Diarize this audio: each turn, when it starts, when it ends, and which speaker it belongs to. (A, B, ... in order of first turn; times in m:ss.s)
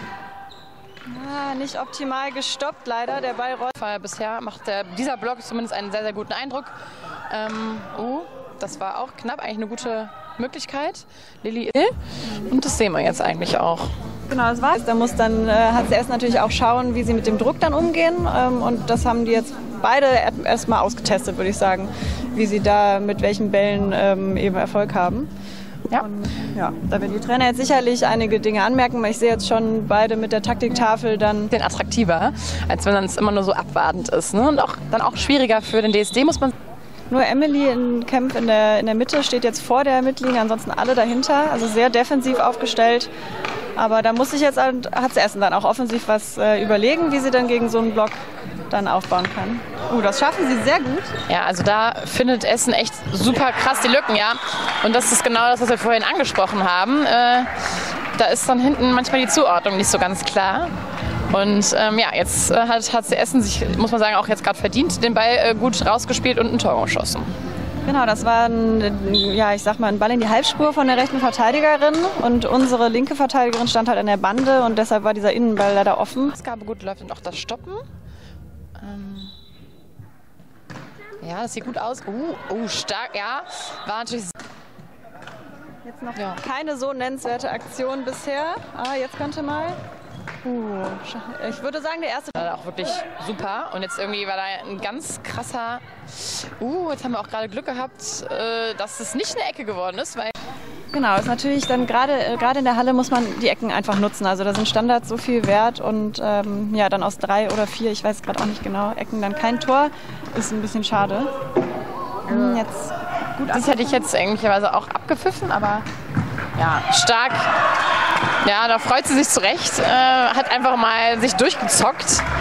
0:01.0-0:03.7 A
0:03.8-0:06.7 B
0:07.3-0:13.9 B
0:14.3-0:25.3 A
0:26.0-0:31.5 A
0:31.5-0:36.5 B
0:37.1-0:43.1 A
0:43.8-0:51.2 A
0:51.3-0:57.5 B
0:58.1-1:00.7 B
1:01.3-1:07.3 B
1:07.8-1:16.3 A
1:16.3-1:17.8 B
1:18.8-1:19.3 B
1:21.2-1:24.4 B
1:25.8-1:29.8 A
1:26.1-1:26.4 B
1:30.4-1:32.5 A
1:32.4-1:40.3 B
1:40.9-1:51.3 A
1:52.3-1:54.1 A
1:53.5-1:55.9 B
1:56.6-1:57.5 B
1:58.4-2:02.2 B